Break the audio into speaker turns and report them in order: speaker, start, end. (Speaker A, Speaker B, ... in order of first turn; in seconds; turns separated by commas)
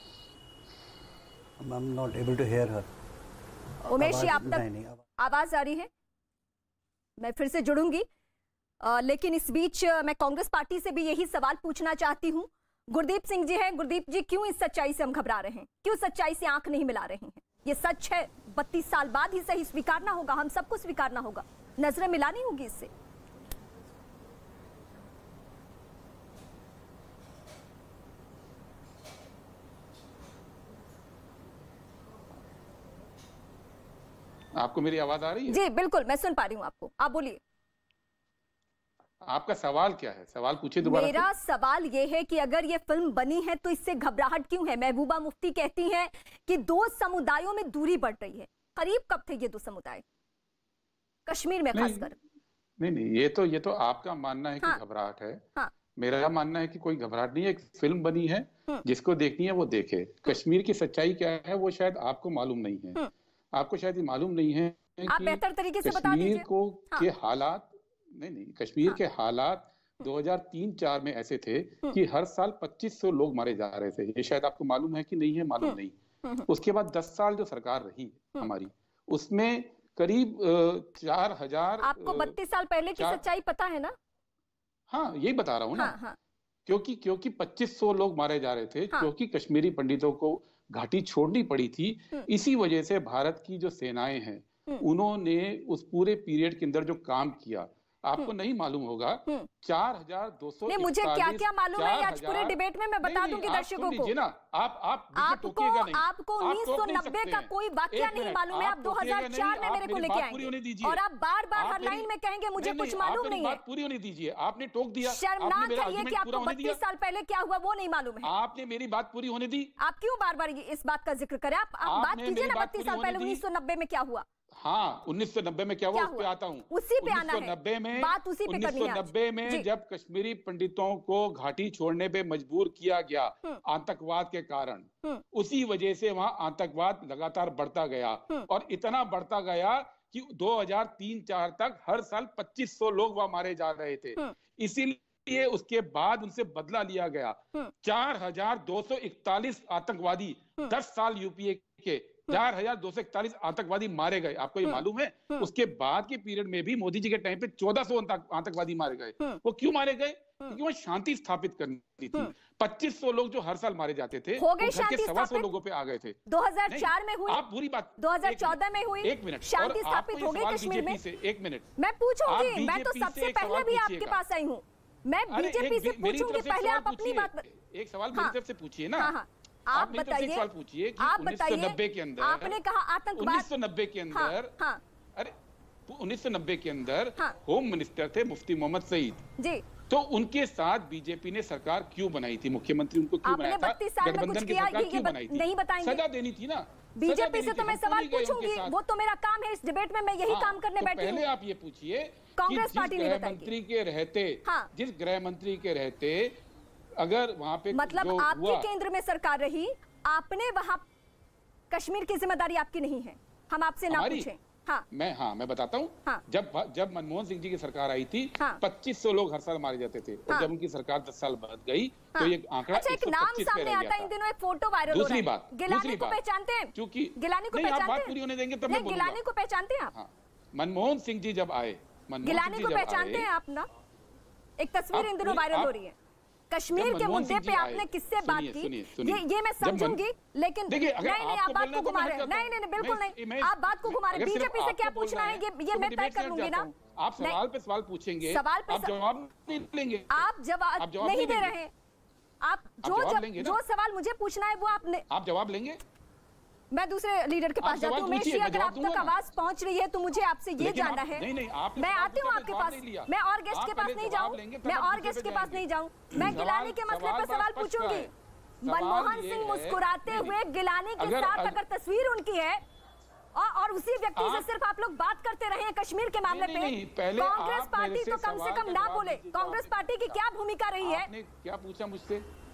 Speaker A: 1.6-2.9, Speaker A: 3.9-5.0, Speaker B: 3.9-4.7, Speaker B: 5.2-5.9, Speaker B: 7.2-8.1, Speaker B: 8.8-22.9, Speaker C: 34.5-35.6, Speaker B: 35.5-37.4, Speaker C: 39.2-41.3, Speaker B: 40.8-50.0, Speaker B: 51.2-52.1, Speaker C: 51.7-52.1, Speaker C: 52.8-55.4, Speaker C: 56.0-63.0, Speaker C: 63.5-75.9, Speaker B: 65.1-67.1, Speaker B: 75.6-76.5, Speaker C: 76.5-82.4, Speaker B: 81.8-83.9, Speaker C: 83.0-83.2, Speaker C: 84.9-86.0, Speaker B: 85.8-86.2, Speaker C: 86.7-111.0, Speaker B: 100.7-104.1, Speaker B: 105.1-113.6, Speaker C: 111.5-116.8, Speaker B: 115.0-118.3, Speaker C: 118.2-119.7, Speaker B: 119.8-124.2, Speaker C: 121.8-123.4, Speaker C: 124.6-166.2, Speaker B: 125.9-129.7, Speaker B: 164.4-165.5, Speaker B: 166.3-167.4, Speaker C: 166.7-171.7, Speaker B: 168.0-171.0, Speaker B: 171.8-177.4, Speaker C: 172.2-174.2, Speaker C: 175.3-179.1, Speaker B: 179.0-180.5, Speaker C: 179.7-182.6, Speaker B: 181.0-183.5, Speaker C: 183.2-184.6, Speaker B: 184.1-184.8, Speaker C: 185.9-189.2, Speaker B: 189.4-189.6, Speaker C: 189.9-198.8, Speaker B: 193.2-196.0, Speaker B: 197.0-201.2, Speaker C: 200.2-206.4, Speaker B: 202.4-203.5, Speaker B: 204.4-204.7, Speaker C: 207.0-208.7, Speaker B: 207.7-210.9, Speaker B: 211.7-214.8, Speaker C: 213.9-214.3, Speaker C: 214.9-224.1, Speaker B: 222.1-229.9, Speaker C: 224.9-226.2, Speaker C: 226.7-229.2, Speaker C: 229.9-233.3, Speaker B: 232.2-233.7, Speaker B: 234.6-235.9, Speaker C: 234.9-235.7, Speaker B: 236.5-246.7, Speaker C: 236.7-240.0, Speaker C: 240.7-250.3, Speaker B: 248.2-248.9, Speaker B: 250.1-251.7, Speaker C: 250.8-251.5, Speaker B: 252.4-255.0, Speaker C: 252.8-253.6, Speaker C: 255.1-255.8, Speaker B: 256.7-261.2, Speaker C: 257.6-259.1, Speaker C: 260.6-268.1, Speaker B: 261.8-268.1, Speaker C: 268.6-270.4, Speaker B: 268.6-272.6, Speaker C: 271.0-271.6, Speaker B: 273.3-281.1, Speaker C: 274.1-274.5, Speaker C: 276.2-280.2, Speaker C: 280.8-282.2